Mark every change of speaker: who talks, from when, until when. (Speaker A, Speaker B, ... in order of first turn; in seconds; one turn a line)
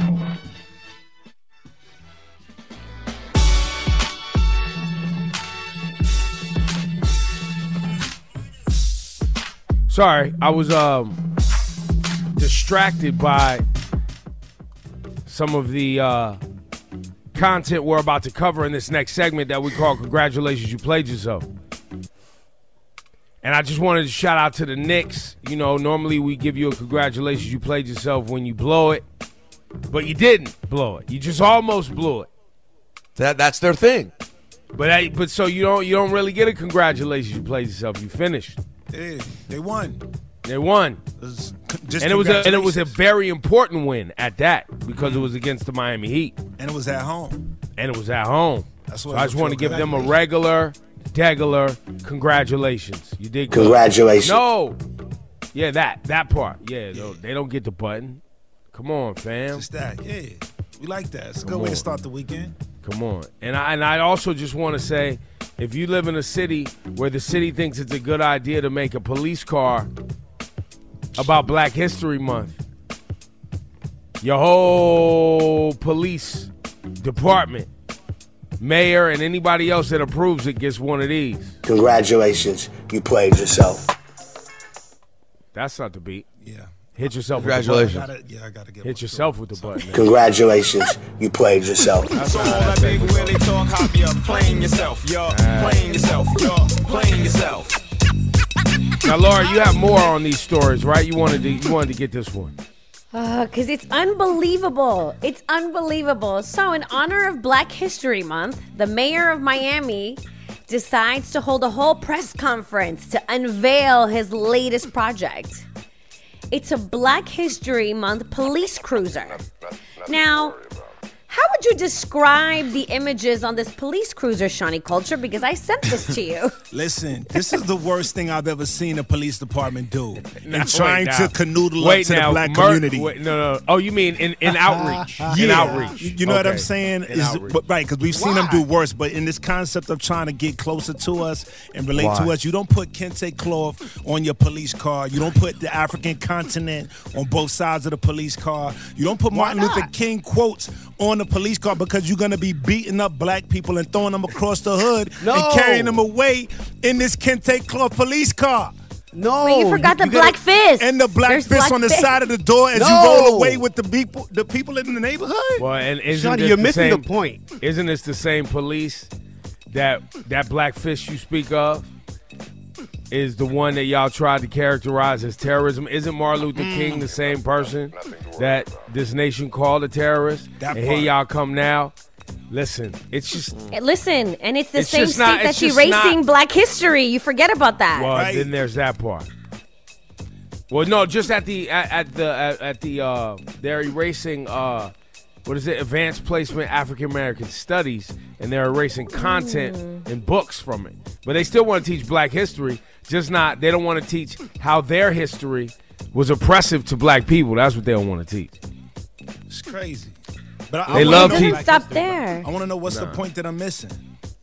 Speaker A: 9.9-11.2
Speaker A: 12.3-13.6
Speaker A: 15.3-16.4
Speaker A: 17.3-21.5
Speaker A: 23.4-29.0
Speaker A: 29.9-32.3
Speaker B: 33.1-34.1
Speaker A: 34.7-38.6
Speaker C: 38.9-40.0
Speaker A: 40.4-41.0
Speaker C: 41.2-42.9
Speaker A: 42.0-46.4
Speaker C: 45.0-45.3
Speaker C: 46.6-47.5
Speaker A: 47.8-54.8
Speaker C: 48.9-50.1
Speaker D: 53.5-54.4
Speaker A: 55.5-58.2
Speaker A: 58.7-59.7
Speaker C: 59.5-62.5
Speaker A: 61.4-61.8
Speaker A: 62.8-69.9
Speaker A: 71.2-72.6
Speaker A: 74.2-76.5
Speaker A: 77.0-77.7
Speaker A: 78.6-81.6
Speaker D: 81.6-83.9
Speaker A: 85.5-86.2
Speaker C: 86.4-86.9
Speaker A: 87.0-88.0
Speaker B: 87.4-88.0
Speaker C: 87.5-89.8
Speaker A: 88.8-90.1
Speaker D: 89.9-92.1
Speaker E: 92.1-97.8
Speaker A: 92.2-93.3
Speaker A: 95.3-95.8
Speaker A: 99.0-102.5
Speaker F: 103.1-115.6
Speaker F: 116.5-119.5
Speaker F: 120.0-120.6
Speaker F: 121.3-126.6
Speaker C: 126.7-133.1
Speaker A: 130.4-137.6
Speaker C: 134.8-158.7
Speaker B: 141.9-142.3
Speaker G: 149.3-149.9
Speaker G: 155.2-156.0
Speaker G: 159.1-160.4
Speaker F: 159.4-162.1
Speaker C: 160.8-165.7
Speaker G: 162.7-163.6
Speaker A: 165.6-169.1
Speaker G: 166.1-167.4
Speaker A: 169.7-171.9
Speaker A: 173.1-181.9
Speaker C: 176.5-177.1
Speaker C: 180.6-181.1
Speaker A: 182.5-183.5
Speaker F: 183.7-188.1
Speaker A: 184.7-186.2
Speaker A: 187.9-189.3
Speaker C: 188.1-188.5
Speaker A: 190.7-194.9
Speaker A: 195.4-208.5
Speaker F: 199.1-200.0
Speaker C: 209.5-210.2
Speaker C: 210.7-214.0
Speaker A: 210.9-211.6
Speaker F: 210.9-212.5
Speaker G: 211.6-212.1
Speaker A: 212.9-213.2